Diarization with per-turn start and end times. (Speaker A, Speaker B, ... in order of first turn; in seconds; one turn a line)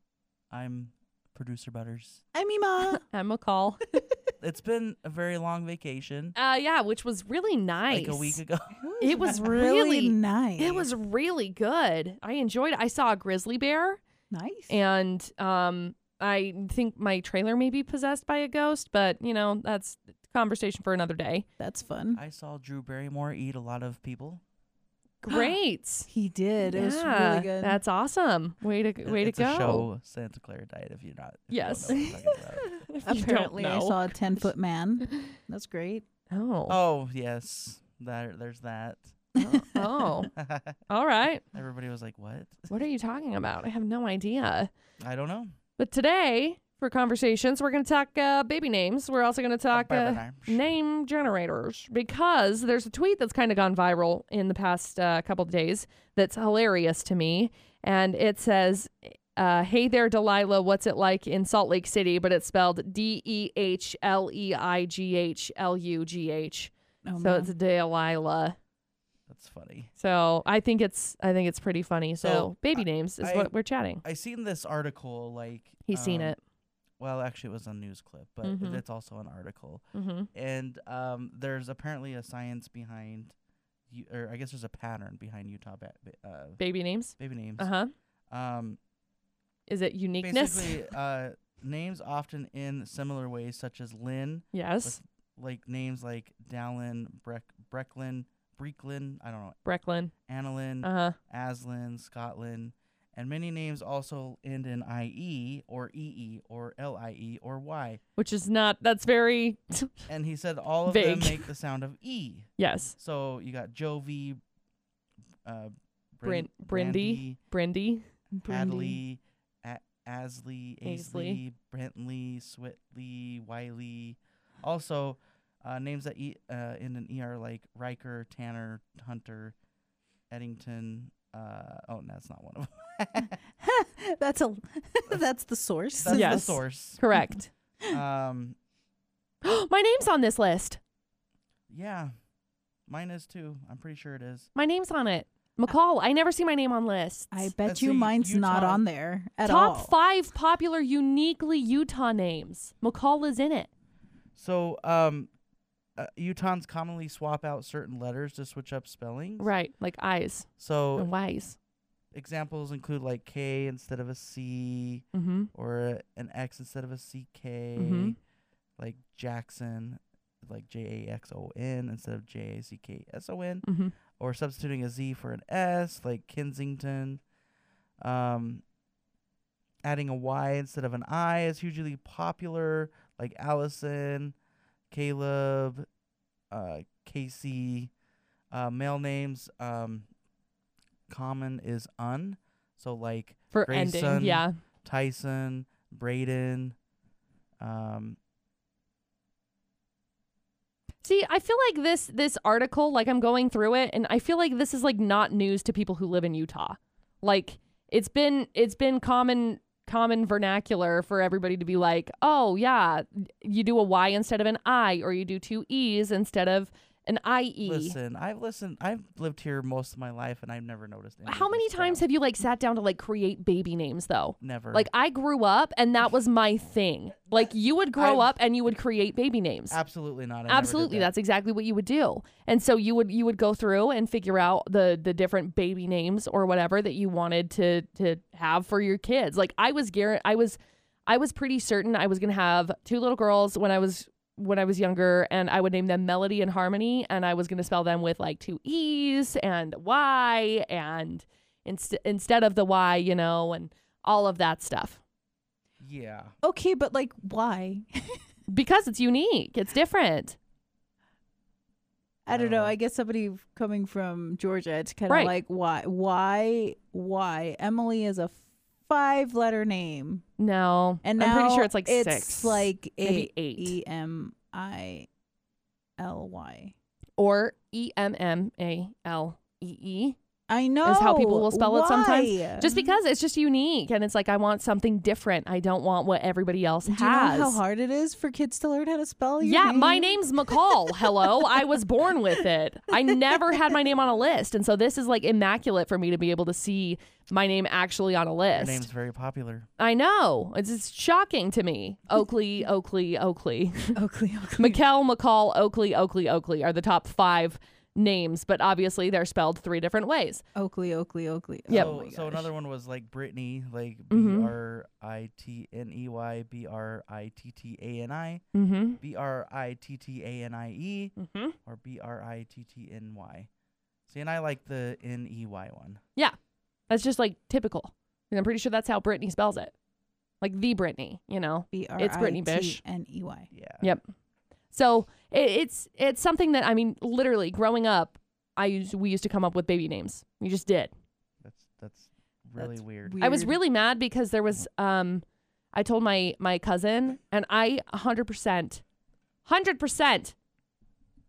Speaker A: 0.5-2.2
Speaker B: 2.3-3.0
Speaker C: 3.0-3.9
Speaker A: 4.4-6.3
Speaker C: 6.3-8.4
Speaker A: 7.9-8.8
Speaker B: 8.8-10.9
Speaker C: 9.0-14.0
Speaker B: 14.3-14.8
Speaker C: 14.7-21.4
Speaker B: 21.6-22.2
Speaker A: 22.1-24.4
Speaker C: 25.2-26.1
Speaker B: 25.3-25.6
Speaker B: 26.1-27.8
Speaker C: 26.6-29.9
Speaker A: 29.0-32.9
Speaker C: 31.5-32.1
Speaker C: 32.9-34.5
Speaker B: 33.0-36.0
Speaker C: 35.1-35.3
Speaker C: 36.3-36.8
Speaker A: 36.7-39.2
Speaker C: 39.4-40.3
Speaker B: 39.4-40.1
Speaker A: 40.3-40.8
Speaker C: 40.9-41.4
Speaker A: 41.5-42.7
Speaker C: 42.7-44.7
Speaker A: 45.0-45.5
Speaker C: 45.8-68.5
Speaker A: 49.7-50.6
Speaker B: 67.0-67.5
Speaker A: 69.3-69.9
Speaker C: 70.0-74.0
Speaker A: 72.2-73.5
Speaker A: 74.0-76.3
Speaker C: 75.9-76.4
Speaker A: 77.0-83.3
Speaker C: 78.4-78.8
Speaker C: 79.9-80.3
Speaker A: 83.9-86.6
Speaker C: 86.6-87.9
Speaker A: 87.2-87.7
Speaker A: 88.3-88.8
Speaker C: 89.7-90.8
Speaker A: 90.2-99.6
Speaker C: 94.5-95.0
Speaker C: 99.6-100.1
Speaker A: 100.3-108.0
Speaker C: 100.8-101.2
Speaker C: 108.2-109.9
Speaker A: 110.1-114.4
Speaker C: 110.9-111.5
Speaker C: 112.6-112.9
Speaker A: 115.4-117.4
Speaker C: 116.2-118.0
Speaker B: 118.3-119.0
Speaker A: 118.5-129.5
Speaker C: 120.8-121.4
Speaker A: 130.3-133.3
Speaker B: 133.6-136.6
Speaker A: 136.0-137.0
Speaker C: 136.1-137.5
Speaker A: 137.9-138.6
Speaker C: 139.4-140.8
Speaker A: 141.7-142.1
Speaker A: 142.9-144.5
Speaker C: 144.5-147.5
Speaker B: 147.3-149.9
Speaker A: 147.6-148.8
Speaker C: 149.4-153.7
Speaker A: 154.3-155.3
Speaker A: 156.0-159.5
Speaker C: 159.4-161.6
Speaker A: 160.6-161.1
Speaker A: 162.1-168.2
Speaker C: 165.1-165.5
Speaker C: 167.8-168.2
Speaker A: 168.8-173.7
Speaker C: 173.6-173.9
Speaker A: 174.2-177.2
Speaker A: 178.0-178.6
Speaker A: 179.8-184.3
Speaker A: 184.9-185.8
Speaker A: 186.5-187.9
Speaker A: 188.5-190.1
Speaker A: 191.1-196.8
Speaker C: 193.5-194.5
Speaker A: 197.6-198.2
Speaker C: 201.0-217.9
Speaker A: 217.6-222.1
Speaker C: 221.3-229.8
Speaker A: 224.4-224.9
Speaker A: 227.9-228.3
Speaker A: 229.7-231.1
Speaker C: 230.5-255.0
Speaker A: 255.8-256.3
Speaker B: 256.4-258.2
Speaker C: 258.5-260.4
Speaker B: 262.2-270.2
Speaker A: 262.3-262.8
Speaker C: 270.4-273.8
Speaker B: 271.0-275.1
Speaker B: 276.0-276.7
Speaker C: 277.2-280.1
Speaker B: 280.5-282.9
Speaker C: 280.8-287.6
Speaker B: 286.8-291.5
Speaker C: 289.4-298.9
Speaker A: 298.5-299.7
Speaker C: 299.8-303.9
Speaker B: 303.9-304.8
Speaker C: 304.6-310.4
Speaker B: 310.5-312.5
Speaker C: 311.7-311.9
Speaker A: 311.7-318.4
Speaker C: 314.1-314.5
Speaker C: 318.5-319.0
Speaker A: 319.0-323.5
Speaker C: 321.2-321.6
Speaker A: 324.1-326.0
Speaker C: 326.9-329.7
Speaker C: 330.4-332.8
Speaker B: 331.7-333.5
Speaker A: 333.5-333.9
Speaker C: 334.7-340.9
Speaker A: 341.4-343.2
Speaker B: 342.6-343.6
Speaker C: 343.2-348.8
Speaker C: 349.4-350.3